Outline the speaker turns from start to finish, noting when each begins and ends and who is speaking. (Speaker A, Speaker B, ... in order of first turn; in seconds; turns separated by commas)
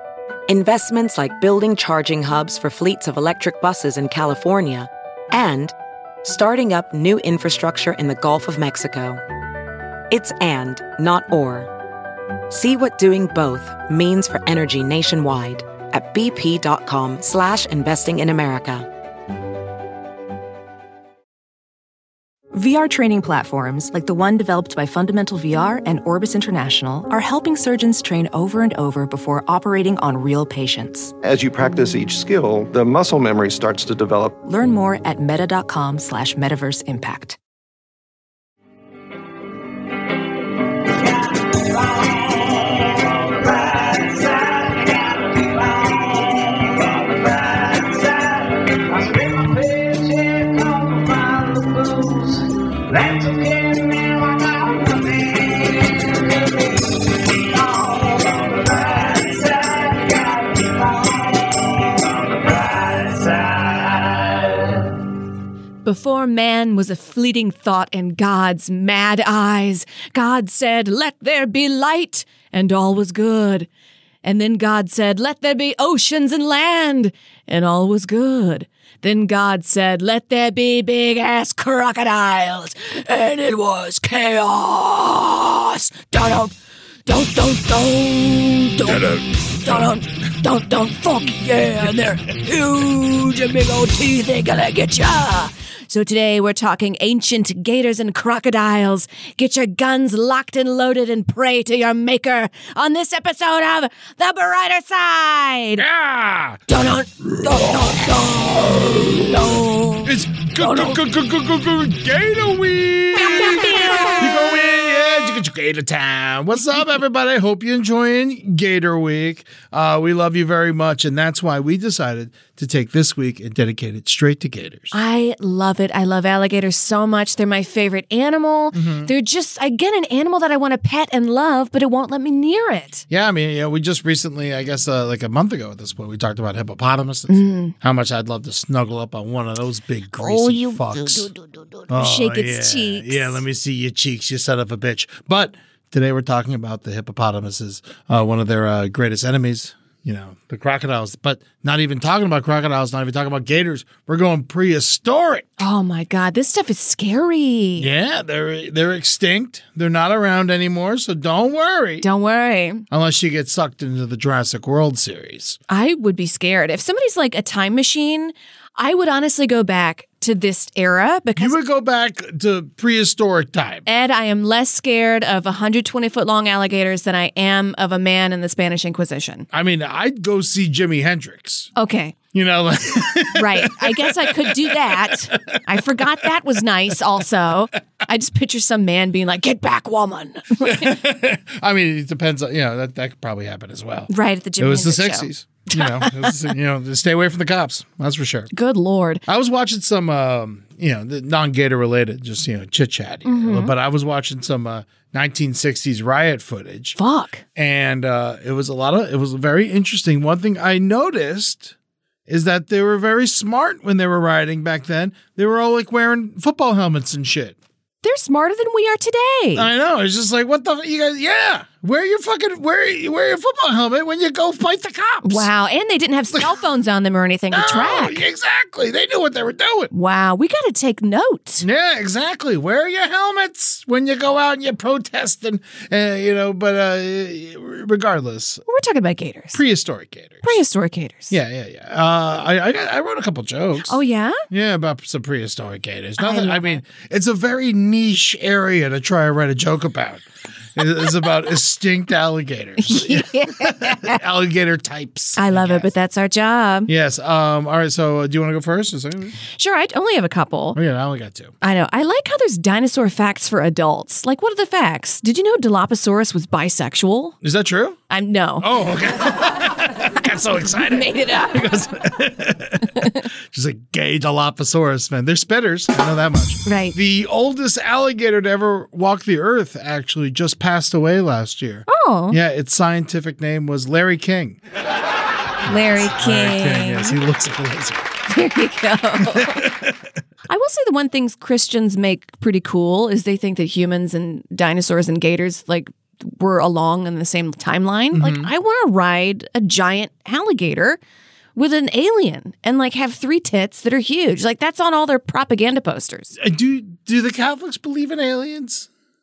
Speaker A: 0.5-9.2, Speaker A: 10.1-11.7, Speaker A: 12.5-18.9, Speaker B: 22.5-31.1, Speaker C: 31.2-34.4, Speaker B: 34.4-37.4, Speaker D: 47.6-48.1, Speaker D: 48.9-50.9, Speaker D: 52.9-54.4, Speaker E: 65.8-73.7, Speaker E: 74.2-86.5, Speaker E: 87.1-105.8, Speaker D: 88.8-89.9, Speaker D: 105.8-106.6, Speaker E: 106.7-111.0, Speaker D: 107.4-107.8, Speaker D: 110.0-124.9, Speaker E: 124.9-133.1, Speaker D: 128.7-129.1, Speaker D: 133.1-141.3, Speaker E: 137.3-137.7, Speaker E: 140.2-143.4, Speaker D: 141.9-155.6, Speaker E: 155.6-157.9, Speaker D: 157.8-162.1, Speaker E: 162.0-162.8, Speaker D: 162.9-165.6, Speaker E: 165.7-171.6, Speaker D: 171.4-173.8, Speaker E: 173.9-179.5, Speaker D: 179.5-181.7, Speaker E: 181.8-182.2, Speaker D: 182.3-186.3, Speaker E: 183.2-191.0, Speaker D: 190.6-198.5, Speaker E: 194.1-196.4, Speaker E: 198.5-199.2, Speaker D: 199.3-207.0, Speaker E: 203.2-203.7, Speaker E: 207.0-207.4, Speaker D: 207.6-211.8, Speaker D: 212.3-217.6, Speaker E: 218.0-219.7, Speaker D: 219.6-225.5, Speaker E: 225.2-228.2, Speaker D: 227.5-229.9, Speaker E: 229.9-231.7, Speaker D: 231.6-238.6, Speaker E: 238.7-239.6, Speaker D: 239.5-240.6, Speaker E: 240.4-241.3, Speaker D: 241.3-255.9, Speaker E: 243.9-244.4, Speaker E: 246.2-246.8, Speaker E: 252.8-254.2, Speaker E: 255.4-256.9, Speaker D: 256.9-259.4, Speaker E: 259.5-260.8, Speaker D: 260.7-261.5, Speaker E: 261.6-267.4, Speaker D: 267.4-268.0, Speaker E: 268.1-268.7, Speaker D: 268.6-284.6, Speaker E: 270.8-271.7, Speaker E: 276.7-276.9, Speaker E: 281.9-282.4, Speaker E: 285.7-287.2, Speaker D: 285.7-288.1, Speaker E: 288.3-289.7, Speaker D: 289.2-289.9, Speaker E: 290.5-301.0, Speaker D: 298.1-298.5, Speaker E: 301.6-306.4, Speaker D: 306.4-308.9